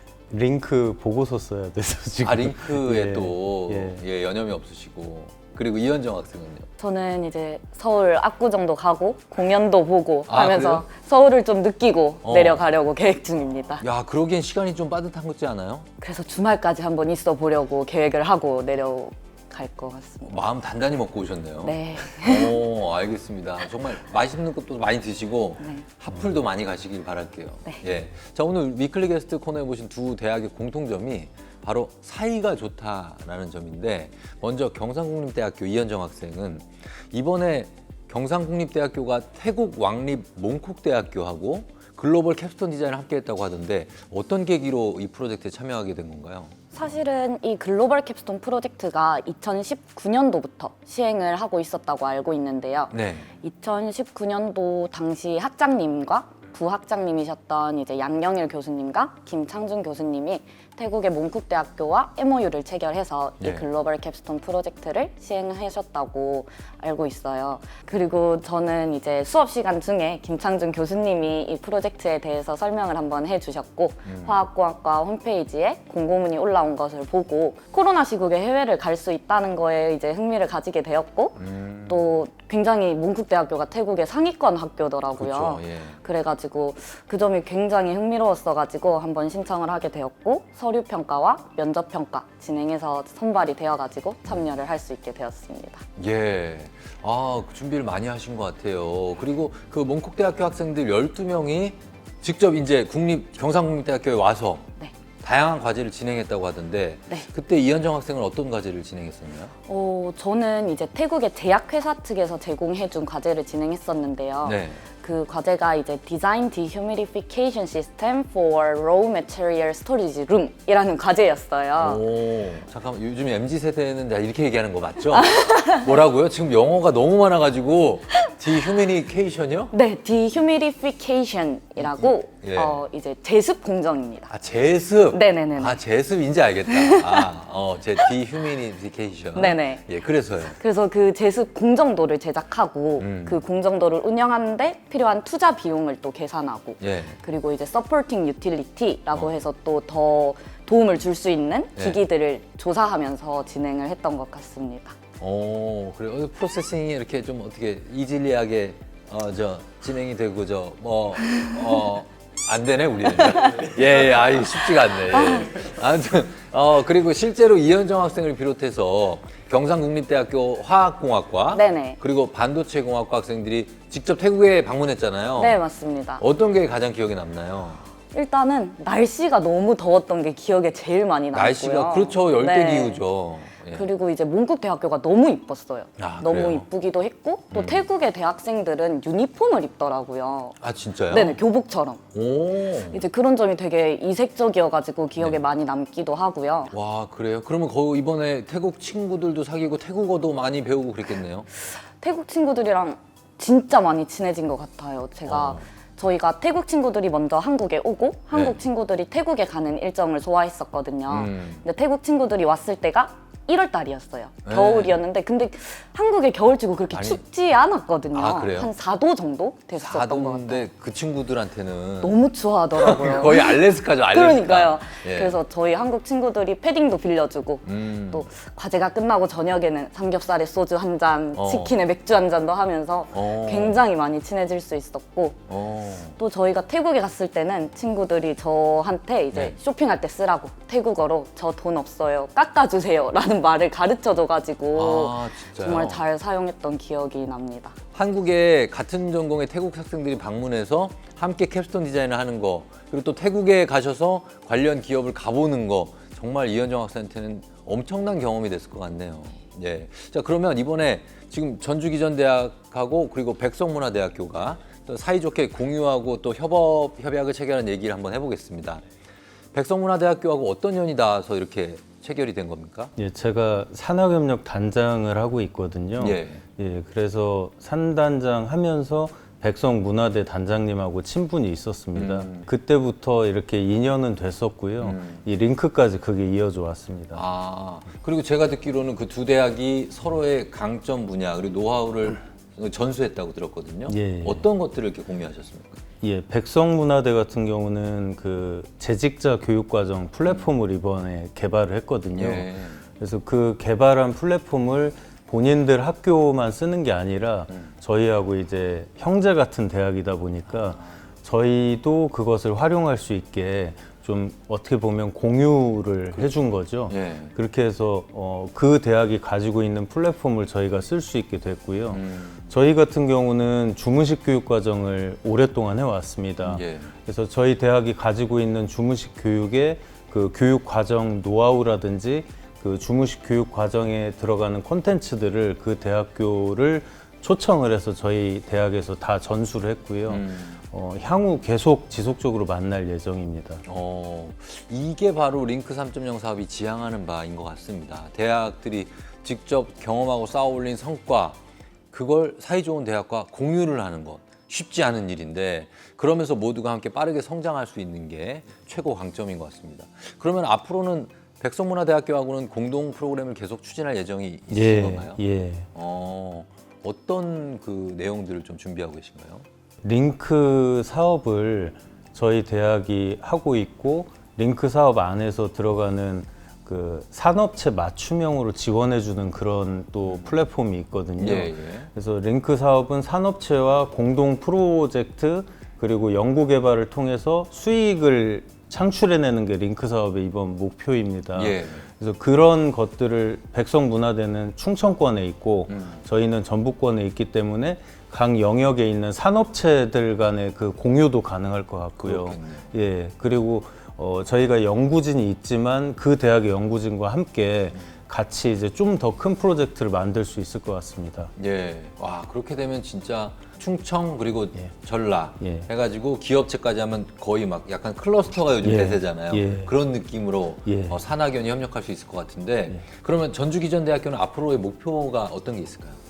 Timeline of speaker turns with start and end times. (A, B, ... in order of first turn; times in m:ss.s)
0:00.3-0:04.0 A
0:02.2-0:06.7 B
0:06.8-0:13.8 C
0:10.3-0:10.8 B
0:12.2-0:12.6 B
0:13.8-0:15.9 B
0:16.0-0:20.4 C
0:20.3-0:46.7 B
0:21.6-0:22.6 C
0:25.6-0:25.8 C
0:46.7-1:35.8 C
0:52.9-0:53.3 B
1:14.0-1:14.3 B
1:21.4-1:22.0 B
1:25.1-1:26.0 B
1:36.0-1:44.7 B
1:45.2-1:49.5 B
1:49.7-2:02.0 C
1:54.4-1:54.8 B
2:01.8-2:09.7 B
2:05.1-2:05.9 C
2:09.7-2:14.3 C
2:12.0-2:12.8 B
2:14.3-2:20.6 B
2:15.1-2:15.8 C
2:16.7-2:17.3 C
2:19.3-2:19.8 C
2:20.5-2:35.0 C
2:23.0-2:23.4 B
2:26.8-2:27.2 B
2:35.2-2:55.6 B
2:51.5-2:52.0 C
2:55.4-2:56.2 C
2:56.2-2:57.8 B
2:58.1-3:03.0 C
3:01.3-3:03.8 B
3:03.7-3:10.6 C
3:06.0-3:06.6 B
3:07.5-3:07.8 B
3:10.6-3:11.4 B
3:11.1-3:12.0 C
3:12.1-3:13.0 B
3:12.9-3:16.7 C
3:16.7-3:21.5 B
3:22.0-3:40.6 C
3:25.3-3:25.6 B
3:31.1-3:31.6 B
3:34.4-3:35.0 B
3:36.9-3:37.2 B
3:38.1-3:38.7 B
3:39.8-3:42.2 B
3:42.0-3:55.4 C
3:42.7-3:45.4 B
3:47.6-3:48.2 B
3:51.4-3:51.8 B
3:53.1-3:53.8 B
3:55.5-3:56.1 B
3:56.2-4:07.7 C
4:04.7-4:06.0 B
4:07.9-4:28.8 B
4:29.5-4:32.9 B
4:33.0-4:47.2 A
4:36.0-4:36.4 B
4:41.9-4:42.5 B
4:44.8-4:45.2 B
4:47.1-4:55.8 B
4:53.9-4:54.5 A
4:56.0-5:43.6 A
5:00.2-5:00.5 B
5:02.1-5:02.8 B
5:10.6-5:10.9 B
5:16.9-5:17.3 B
5:21.9-5:22.4 B
5:26.4-5:26.9 B
5:40.1-5:40.6 B
5:43.6-5:51.4 B
5:51.9-6:05.2 B
6:04.5-6:05.7 A
6:05.7-6:09.4 B
6:09.8-6:51.3 A
6:20.0-6:20.4 B
6:21.2-6:21.9 B
6:31.3-6:31.8 B
6:35.7-6:36.0 B
6:42.0-6:42.7 B
6:51.4-7:06.0 B
6:55.4-6:55.7 A
6:58.6-6:59.7 A
7:00.6-7:01.0 A